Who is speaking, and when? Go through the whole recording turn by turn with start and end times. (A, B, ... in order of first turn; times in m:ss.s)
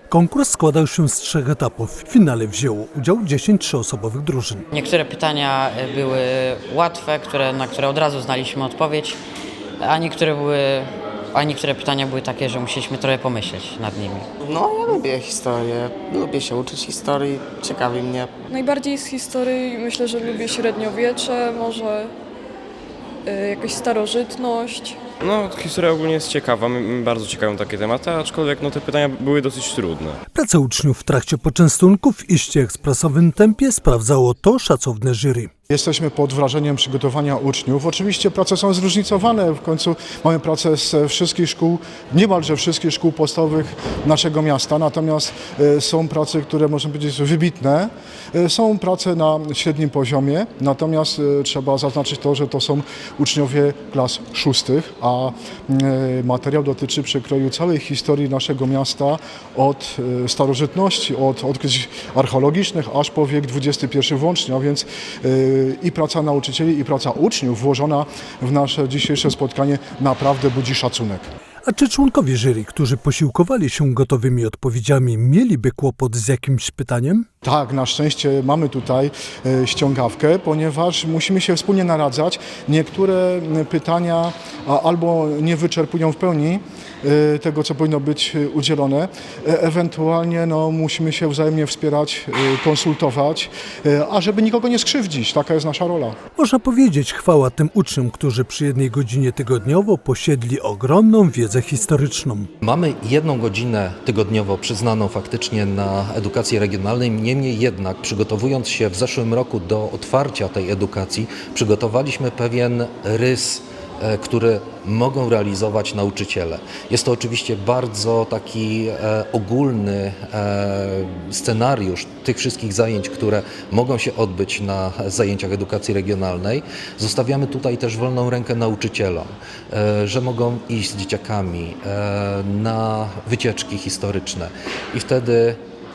0:00.1-0:04.7 A
0:04.7-0:09.2 B
0:09.8-0:14.3 B
0:14.4-0:18.3 C
0:18.5-0:22.1 D
0:23.3-0:25.0 D
0:25.2-0:30.2 E
0:30.3-0:35.5 A
0:35.7-1:11.3 F
1:11.6-1:17.3 A
1:17.4-1:36.2 F
1:36.4-1:42.5 A
1:42.6-2:15.6 G